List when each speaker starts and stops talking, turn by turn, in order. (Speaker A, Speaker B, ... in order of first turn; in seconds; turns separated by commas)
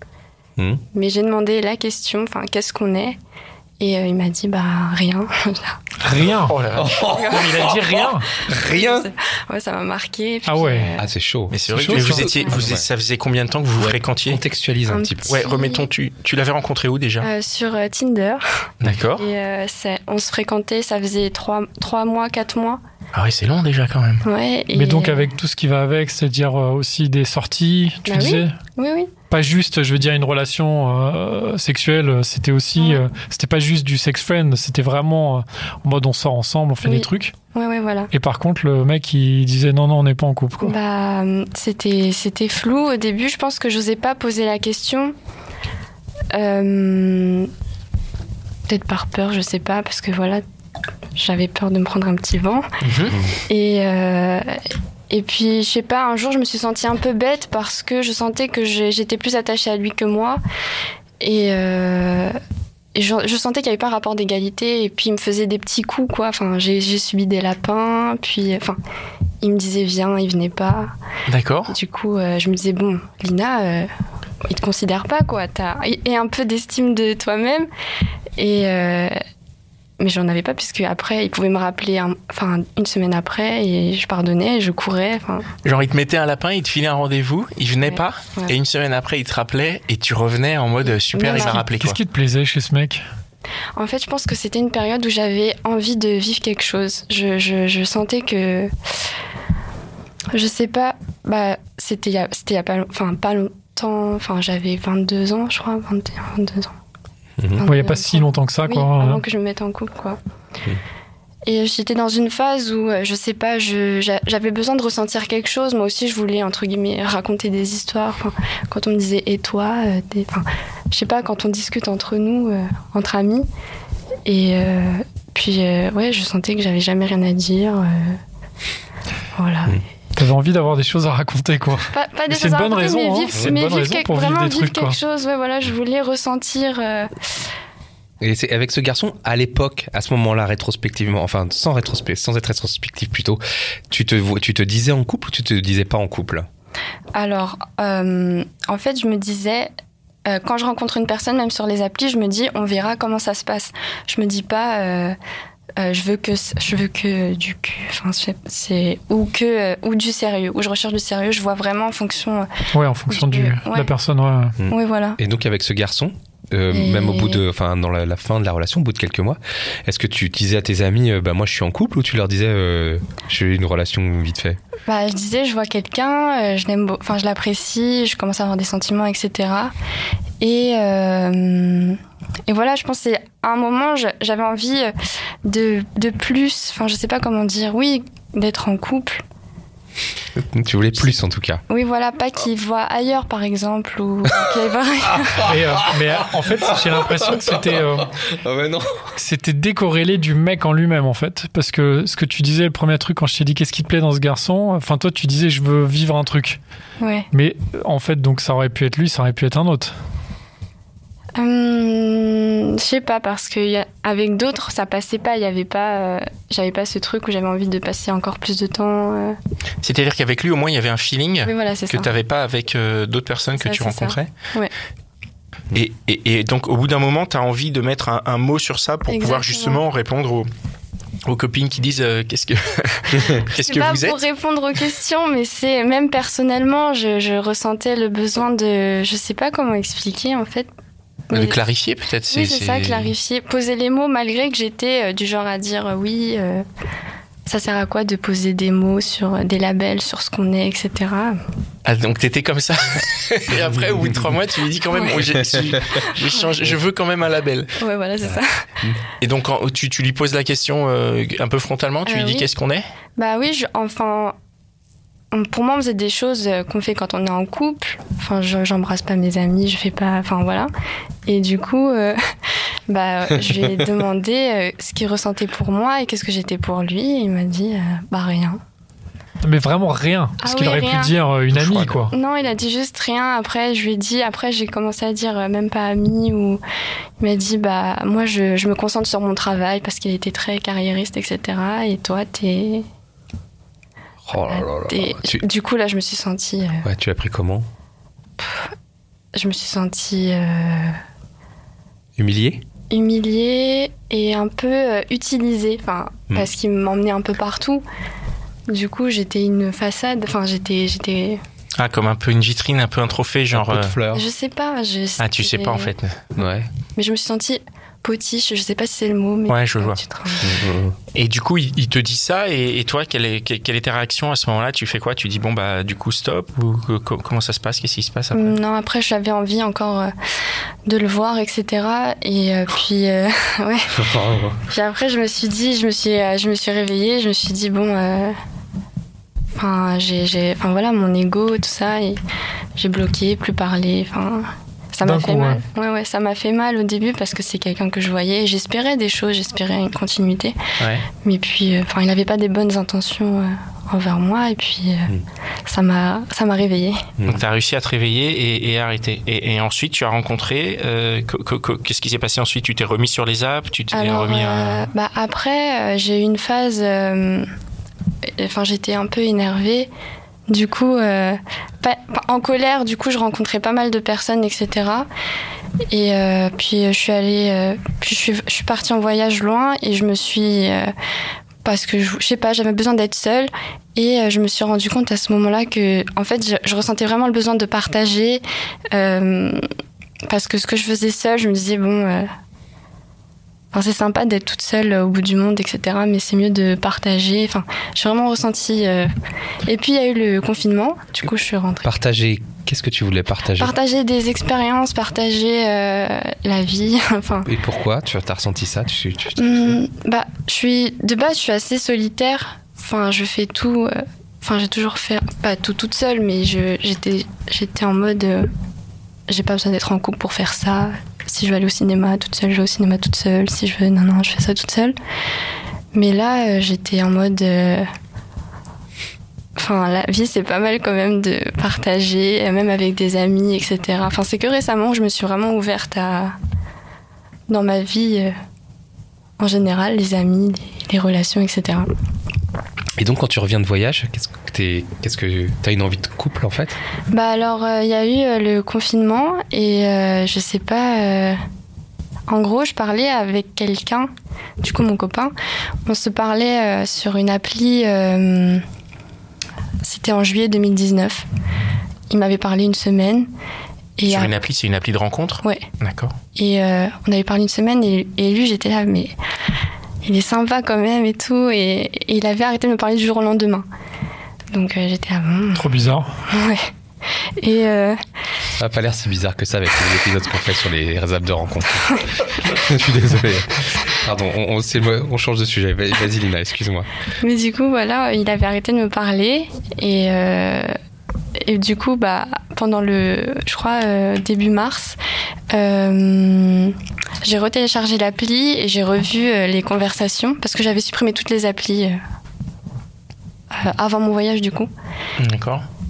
Speaker A: 0.6-0.8, Speaker B: 0.9-3.2, Speaker B: 3.8-5.8, Speaker C: 6.0-6.6, Speaker D: 6.5-6.9, Speaker A: 6.7-9.1, Speaker B: 7.0-7.7, Speaker C: 7.3-8.3, Speaker B: 8.5-11.1, Speaker C: 10.4-10.9, Speaker A: 11.0-12.9, Speaker D: 11.5-14.4, Speaker C: 11.8-12.3, Speaker A: 13.8-15.3, Speaker B: 14.9-15.8, Speaker D: 15.3-17.3, Speaker B: 17.2-18.6, Speaker D: 18.8-19.2, Speaker B: 19.2-22.8, Speaker D: 23.1-24.2, Speaker B: 24.2-25.3, Speaker C: 24.7-28.6, Speaker B: 28.1-29.1, Speaker C: 29.3-37.3, Speaker B: 32.8-33.0, Speaker B: 36.8-38.1, Speaker C: 38.1-40.8, Speaker B: 40.6-45.1, Speaker B: 46.3-47.5, Speaker B: 48.7-50.4, Speaker B: 51.1-52.7, Speaker D: 52.8-53.1, Speaker B: 53.5-60.4, Speaker B: 61.2-62.4, Speaker B: 62.9-68.8, Speaker B: 69.4-70.9, Speaker D: 71.3-71.7, Speaker B: 71.7-73.9, Speaker B: 74.4-77.7, Speaker B: 78.4-79.2, Speaker B: 80.0-85.5, Speaker D: 85.6-92.0, Speaker B: 87.8-88.5, Speaker B: 91.1-91.6, Speaker C: 91.3-93.0, Speaker B: 93.8-98.7, Speaker B: 100.3-106.7, Speaker B: 107.6-110.2, Speaker C: 107.6-109.2, Speaker B: 111.5-123.5, Speaker B: 124.2-128.2, Speaker B: 129.3-129.8, Speaker C: 130.2-135.0, Speaker B: 131.9-137.4, Speaker A: 138.2-146.4, Speaker B: 147.1-149.7, Speaker B: 150.2-155.2, Speaker B: 155.8-162.5, Speaker C: 162.7-164.6, Speaker B: 163.1-163.9, Speaker A: 164.6-174.6, Speaker B: 164.7-165.2, Speaker B: 166.7-167.4, Speaker B: 174.9-179.7, Speaker B: 180.4-184.9, Speaker B: 185.4-189.2, Speaker A: 190.4-191.6, Speaker B: 191.7-195.5, Speaker A: 195.4-199.1, Speaker C: 195.4-198.1, Speaker C: 199.2-206.6, Speaker B: 207.0-207.3, Speaker C: 207.3-209.9, Speaker B: 211.3-219.4, Speaker D: 219.8-224.3, Speaker B: 221.4-222.1, Speaker B: 223.6-224.7, Speaker D: 225.7-230.5, Speaker B: 229.1-229.8, Speaker D: 231.2-234.2, Speaker B: 233.6-240.7, Speaker B: 241.3-241.6, Speaker D: 241.3-243.1, Speaker B: 242.3-246.6, Speaker B: 247.5-251.4, Speaker D: 251.8-257.8, Speaker A: 253.5-254.3, Speaker A: 255.3-255.8, Speaker B: 256.0-256.4, Speaker B: 257.8-258.6, Speaker A: 258.3-259.0, Speaker D: 259.2-262.8, Speaker B: 262.1-262.5, Speaker B: 263.2-264.3, Speaker B: 265.3-270.7, Speaker B: 271.2-272.2, Speaker B: 272.9-278.6, Speaker A: 273.3-273.9, Speaker C: 279.4-282.1, Speaker B: 280.4-281.1, Speaker A: 281.5-282.1, Speaker B: 282.1-286.6, Speaker B: 287.2-292.9, Speaker A: 294.2-295.4, Speaker B: 294.5-296.9, Speaker A: 296.8-297.7, Speaker B: 298.4-298.7, Speaker B: 299.3-301.0, Speaker A: 302.2-302.6, Speaker B: 302.9-307.8, Speaker B: 308.7-311.4, Speaker D: 311.8-313.9, Speaker A: 313.5-314.2, Speaker B: 314.1-315.9, Speaker D: 315.2-316.2, Speaker A: 316.3-316.7, Speaker B: 317.0-320.5, Speaker D: 319.5-320.0, Speaker A: 320.4-320.9, Speaker D: 321.1-328.6, Speaker B: 328.3-330.1, Speaker B: 330.9-333.9, Speaker A: 333.9-334.6, Speaker B: 334.7-338.4, Speaker B: 339.6-342.2, Speaker B: 342.8-350.6, Speaker C: 345.0-345.6, Speaker D: 350.8-351.1, Speaker B: 351.1-355.1, Speaker B: 355.6-357.1, Speaker A: 357.2-357.4, Speaker D: 357.2-364.9, Speaker B: 363.9-367.5, Speaker B: 368.4-369.9, Speaker B: 370.5-375.1, Speaker B: 375.9-380.9, Speaker B: 381.6-389.6, Speaker B: 390.2-392.3, Speaker B: 393.7-399.1, Speaker B: 399.6-401.9, Speaker A: 401.8-403.7, Speaker B: 403.6-407.5, Speaker A: 407.4-409.8, Speaker B: 409.4-418.5, Speaker B: 419.3-424.9, Speaker B: 425.9-427.9, Speaker B: 429.6-436.3, Speaker B: 437.5-438.3, Speaker B: 439.4-441.9, Speaker A: 443.0-446.8, Speaker B: 447.1-451.4, Speaker B: 452.3-454.1, Speaker B: 454.6-455.3, Speaker B: 455.9-458.6, Speaker B: 459.8-461.2, Speaker B: 462.1-463.3, Speaker B: 464.0-464.3, Speaker D: 464.1-466.1, Speaker B: 466.3-469.1, Speaker B: 470.0-473.6, Speaker B: 474.5-475.8, Speaker C: 475.5-476.1, Speaker B: 476.3-476.7, Speaker B: 477.4-478.0, Speaker A: 478.6-486.9, Speaker B: 487.2-490.7, Speaker B: 491.4-495.0, Speaker B: 495.5-502.0, Speaker B: 503.5-504.7, Speaker D: 505.2-505.6